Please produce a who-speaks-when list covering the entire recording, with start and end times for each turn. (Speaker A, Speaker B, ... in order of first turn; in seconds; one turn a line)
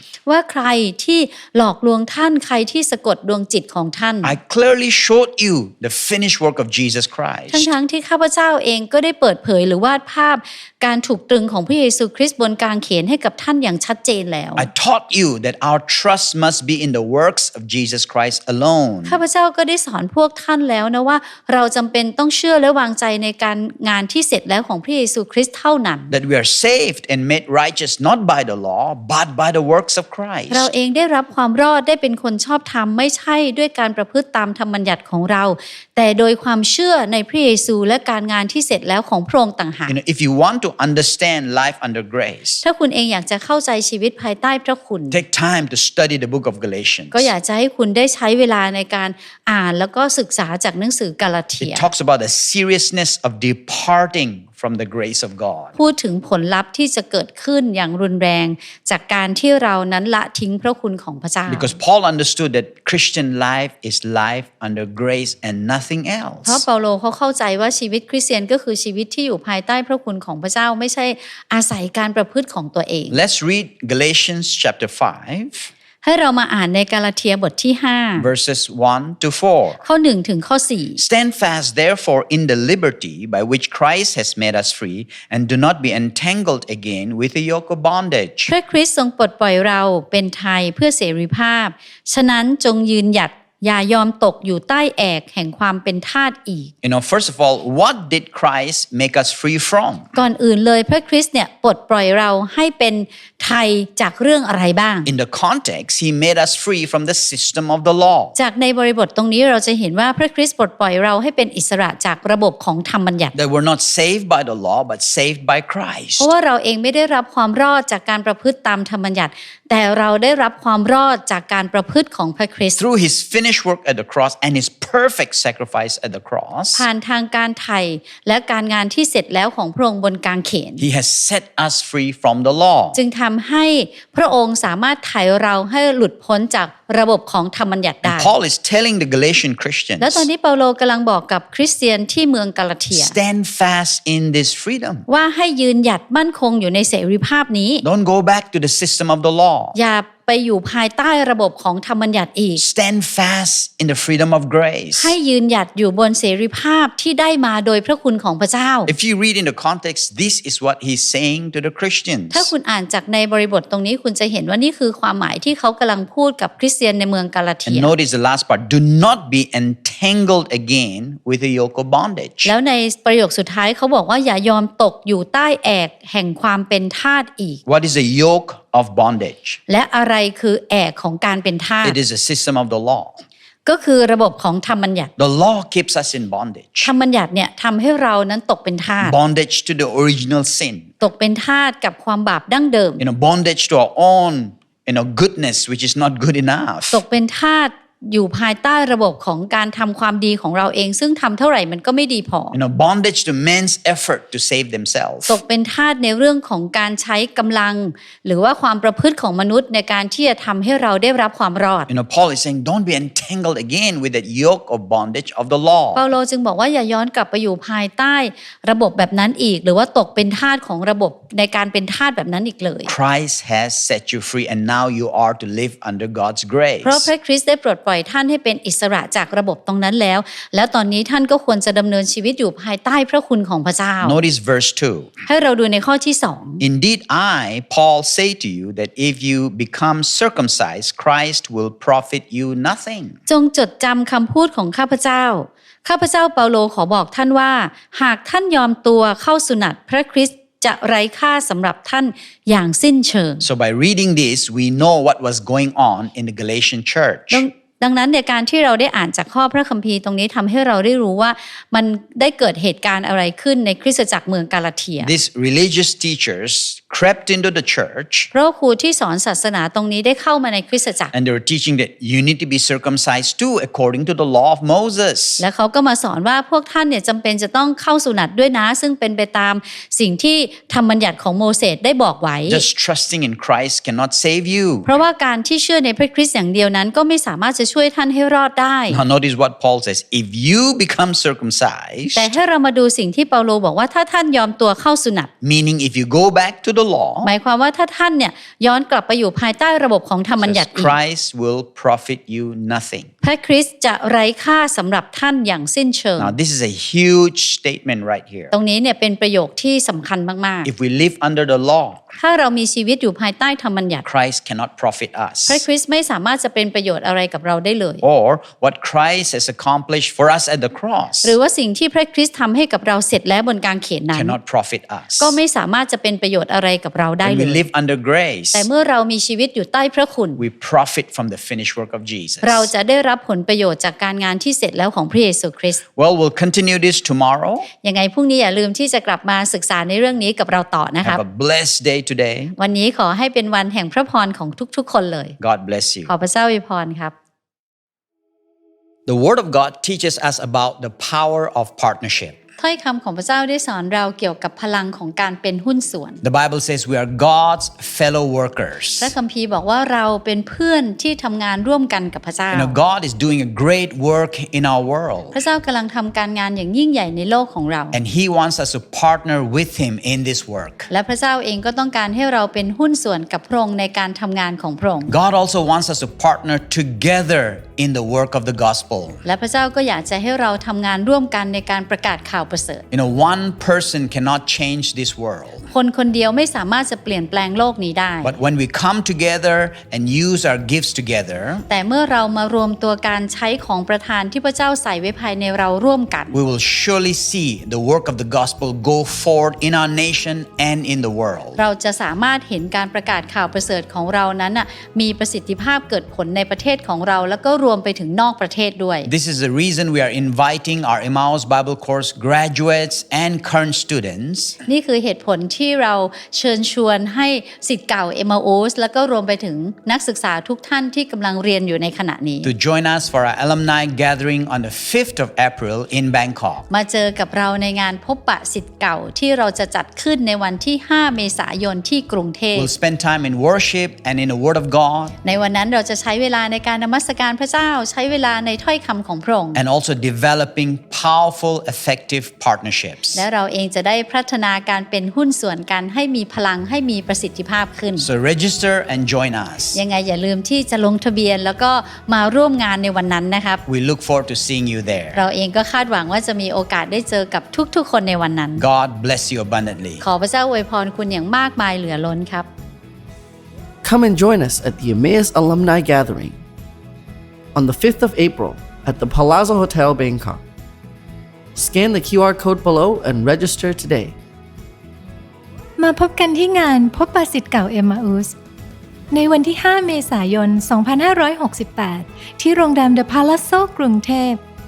Speaker A: 0.2-4.3
Speaker B: 4.2-7.7
Speaker A: 7.5-14.7
Speaker B: 14.6-19.2
Speaker A: 19.1-26.1
Speaker B: 26.1-30.7
Speaker A: 30.5-39.9
Speaker B: 39.9-42.6
Speaker A: 42.6-45.2
Speaker B: 45.1-47.3
Speaker A: 47.1-51.9
Speaker B: 51.6-55.7
Speaker A: 55.8-61.7
Speaker B: 61.5-66.6
Speaker A: 66.4-73.2
Speaker B: 73.1-75.7
Speaker A: 76.0-78.3
Speaker B: 78.2-79.8
Speaker A: 79.8-81.0
Speaker B: 81.0-88.5
Speaker A: 88.5-96.7
Speaker B: 96.8-100.0
Speaker A: 100.1-105.1
Speaker B: 105.0-108.3
Speaker A: 108.3-113.3
Speaker B: 113.3-116.3
Speaker A: 116.2-122.8
Speaker B: 122.8-126.8
Speaker A: 126.7-130.8
Speaker B: 130.8-133.0
Speaker A: 132.9-138.3
Speaker B: 138.0-140.2
Speaker A: 140.0-143.2
Speaker B: 142.9-145.0
Speaker A: 145.1-147.8
Speaker B: 147.8-149.8
Speaker A: 149.7-152.6
Speaker B: 152.6-155.1
Speaker A: 154.9-158.9
Speaker B: 158.9-162.5
Speaker A: 162.3-167.9
Speaker B: 167.7-172.5
Speaker A: 172.4-177.6
Speaker B: 177.7-179.6
Speaker A: 179.7-182.0
Speaker B: 181.8-183.2
Speaker A: 183.7-185.1
Speaker B: 185.2-186.9
Speaker A: 186.8-189.2
Speaker B: 189.0-190.9
Speaker A: 191.0-193.0
Speaker B: 193.0-197.0
Speaker A: 196.9-202.6
Speaker B: 202.5-205.4
Speaker A: 205.3-211.9
Speaker B: 211.9-216.1
Speaker A: 215.9-222.9
Speaker B: 222.8-227.1
Speaker A: 226.8-234.2
Speaker B: 234.0-235.1
Speaker A: 235.3-236.6
Speaker B: 236.6-243.2
Speaker A: 243.3-253.4
Speaker B: 253.4-257.4
Speaker A: 257.3-265.1
Speaker B: 265.0-268.3
Speaker A: 268.3-271.1
Speaker B: 271.1-275.4
Speaker A: 275.4-282.6
Speaker B: 282.5-284.9
Speaker A: 284.8-289.0
Speaker B: 288.9-292.3
Speaker A: 292.1-295.3
Speaker B: 295.4-297.3
Speaker A: 297.2-300.9
Speaker B: 300.4-303.1
Speaker A: 303.2-306.4
Speaker B: 306.2-308.5
Speaker A: 308.5-310.7
Speaker B: 310.6-312.2
Speaker A: 312.2-314.0
Speaker B: 314.0-315.6
Speaker A: 315.5-318.0
Speaker B: 318.0-321.4
Speaker A: 321.2-324.4
Speaker B: 324.1-325.4
Speaker A: 325.2-327.7
Speaker B: 327.2-328.7
Speaker A: 328.5-330.4
Speaker B: 330.4-332.7
Speaker A: 332.4-335.8
Speaker B: 335.9-337.7
Speaker A: 337.8-341.2
Speaker B: 341.0-342.5
Speaker A: 342.6-345.4
Speaker B: 345.4-346.1
Speaker A: 346.1-347.1
Speaker B: 349.1-352.4
Speaker A: 352.6-356.2
Speaker B: 356.2-359.1
Speaker A: 359.0-362.8
Speaker B: 362.5-365.4
Speaker A: 365.3-368.0
Speaker B: 367.9-370.9
Speaker A: 370.9-375.1
Speaker B: 375.1-379.2
Speaker A: 379.2-382.8
Speaker B: 382.9-385.7
Speaker A: 385.7-388.4
Speaker B: 388.2-391.6
Speaker A: 391.7-396.3
Speaker B: 396.3-401.6
Speaker A: 401.6-409.1
Speaker B: 409.0-414.6
Speaker A: 414.6-422.5
Speaker B: 422.4-426.6
Speaker A: 426.7-432.7
Speaker B: 432.5-435.1
Speaker A: 435.2-439.6
Speaker B: 439.5-443.2
Speaker A: 443.1-448.1
Speaker B: 448.0-449.8
Speaker A: 449.7-453.6
Speaker B: 453.7-455.2
Speaker A: 455.1-458.6
Speaker B: 458.6-460.0
Speaker A: 460.0-462.5
Speaker C: 463.8-466.4
Speaker C: 467.5-470.4
Speaker C: 471.5-474.1
Speaker D: 475.8-478.3
Speaker D: 479.1-484.4